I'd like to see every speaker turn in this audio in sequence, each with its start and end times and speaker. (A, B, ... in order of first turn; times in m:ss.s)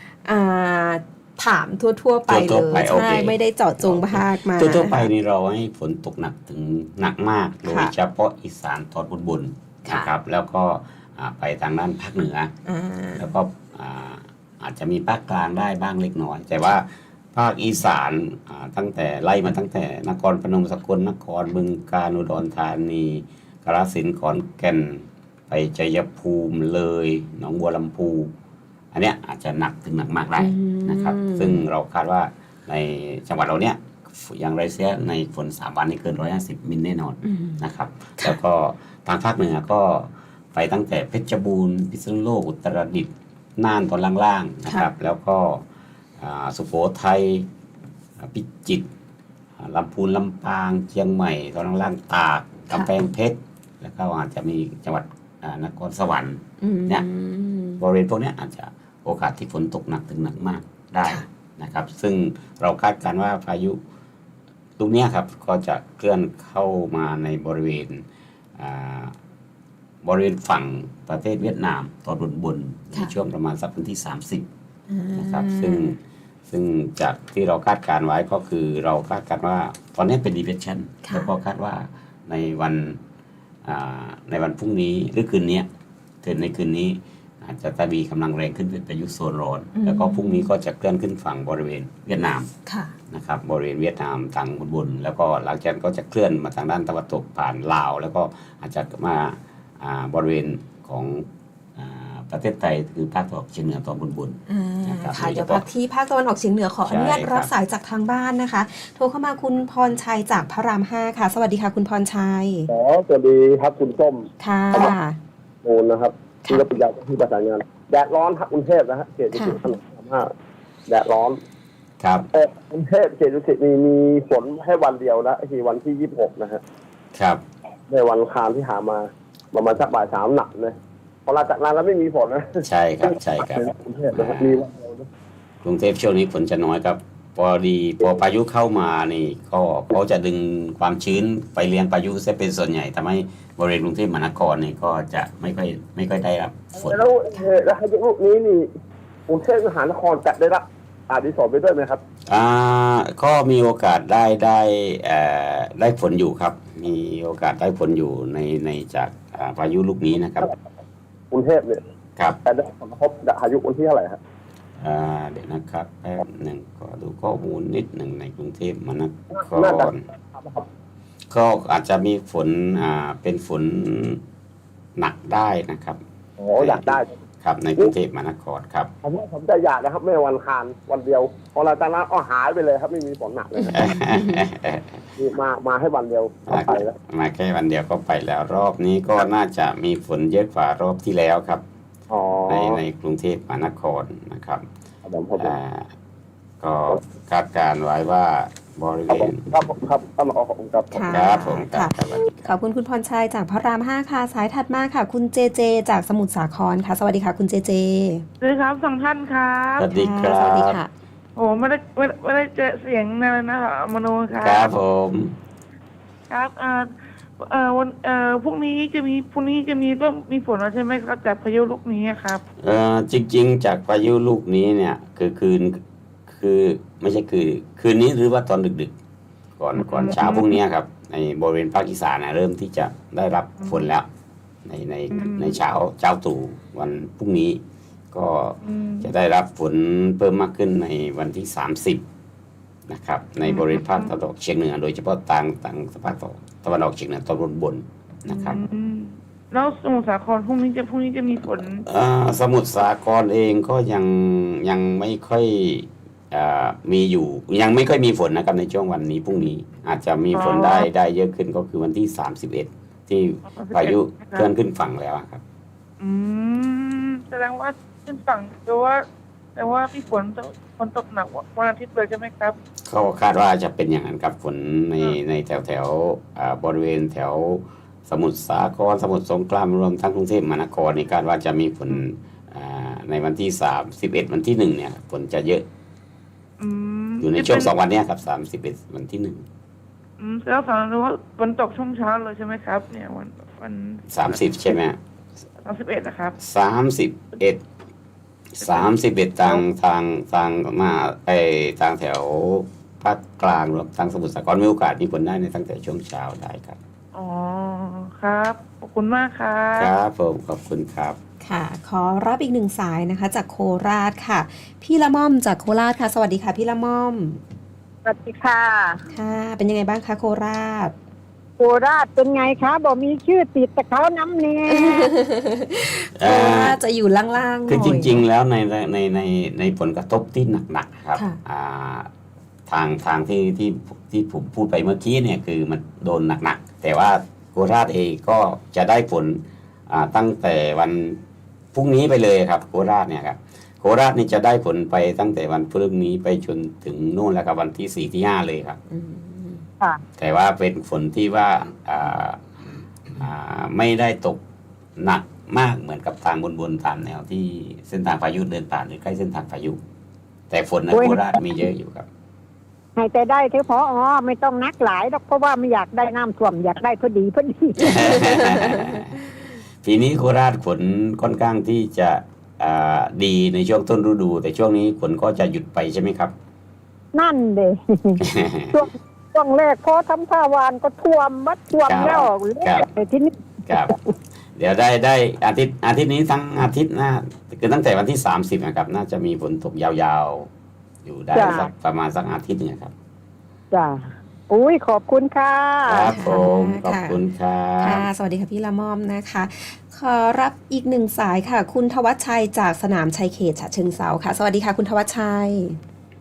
0:00.2-0:05.1 A
0:02.3-0:12.5 B
0:07.7-0:07.9 A
0:09.8-0:10.1 A
0:12.7-0:13.3 A
0:13.2-0:28.3 B
0:28.9-0:45.6 B
0:30.4-0:31.6 A
0:37.2-0:37.6 A
0:46.2-0:47.5 B
0:48.2-0:48.9 B
0:49.6-0:57.0 B
0:56.6-0:57.8 A
0:57.8-1:03.8 B
1:04.8-1:08.0 B
1:08.6-1:09.2 B
1:10.0-1:14.5 B
1:14.9-1:16.0 A
1:15.2-1:23.0 B
1:21.0-1:21.3 A
1:23.6-1:25.7 B
1:26.2-1:32.5 B
1:29.8-1:30.5 A
1:32.7-1:33.0 A
1:33.1-1:45.6 B
1:44.5-1:52.7 A
1:46.8-1:47.5 B
1:52.7-1:54.9 C
1:54.4-1:55.2 A
1:55.6-2:00.3 C
1:59.3-1:59.6 A
2:00.9-2:01.4 C
2:02.0-2:02.3 B
2:02.3-2:06.6 C
2:07.2-2:07.4 B
2:07.9-2:12.6 C
2:12.6-2:14.6 B
2:13.5-2:15.1 C
2:15.6-2:27.0 B
2:26.8-2:28.7 C
2:29.3-2:32.0 C
2:32.3-2:40.5 B
2:41.3-2:41.8 C
2:42.5-2:44.2 C
2:44.8-2:50.0 B
2:49.4-2:50.7 C
2:51.3-2:54.2 B
2:55.0-2:56.0 B
2:56.4-2:57.1 C
2:56.6-2:56.9 B
2:57.4-2:58.9 B
2:59.0-3:04.0 C
3:03.7-3:05.0 B
3:04.0-3:04.4 A
3:05.2-3:06.9 C
3:06.5-3:11.6 B
3:12.1-3:12.8 C
3:12.5-3:14.7 B
3:15.1-3:15.5 C
3:15.4-3:15.9 B
3:16.6-3:19.5 B
3:19.1-3:21.1 C
3:20.9-3:28.2 A
3:21.1-3:22.4 B
3:28.4-3:29.9 D
3:29.8-3:30.8 B
3:29.9-3:30.9 A
3:31.4-3:34.7 D
3:34.4-3:35.4 B
3:36.3-3:42.4 D
3:42.6-3:48.9 B
3:49.6-3:54.1 B
3:49.8-3:50.6 D
3:54.6-3:57.6 B
3:55.1-3:55.6 D
3:58.1-4:02.0 B
3:58.6-3:59.1 D
4:02.9-4:08.6 B
4:03.5-4:04.1 D
4:08.3-4:11.8 D
4:11.9-4:25.4 B
4:20.3-4:20.9 D
4:23.5-4:24.5 D
4:26.0-4:29.0 D
4:29.6-4:32.6 D
4:32.9-4:45.6 B
4:46.6-4:47.7 D
4:47.2-4:49.5 B
4:50.2-4:54.4 D
4:54.1-4:55.0 B
4:55.6-4:56.4 D
4:56.4-4:57.6 B
4:58.6-5:06.8 B
4:58.6-4:58.9 D
5:07.2-5:09.9 D
5:09.7-5:11.2 B
5:11.4-5:17.4 A
5:18.0-5:19.1 E
5:19.1-5:21.0 A
5:21.6-5:25.1 E
5:24.7-5:28.2 A
5:26.2-5:26.8 B
5:27.7-5:32.1 B
5:32.7-5:41.2 B
5:41.7-5:48.8 B
5:48.9-5:49.7 A
5:50.2-5:52.5 B
5:53.1-5:54.4 B
5:55.0-5:59.8 B
6:00.5-6:02.1 B
6:00.9-6:01.5 E
6:03.0-6:08.9 E
6:07.8-6:09.3 B
6:09.8-6:16.3 B
6:17.1-6:23.9 E
6:18.2-6:18.8 B
6:21.8-6:22.9 B
6:23.7-6:24.0 B
6:24.6-6:30.5 B
6:31.0-6:32.9 B
6:31.3-6:31.7 E
6:33.7-6:36.2 E
6:35.9-6:38.1 B
6:36.1-6:37.2 A
6:37.8-6:45.8 A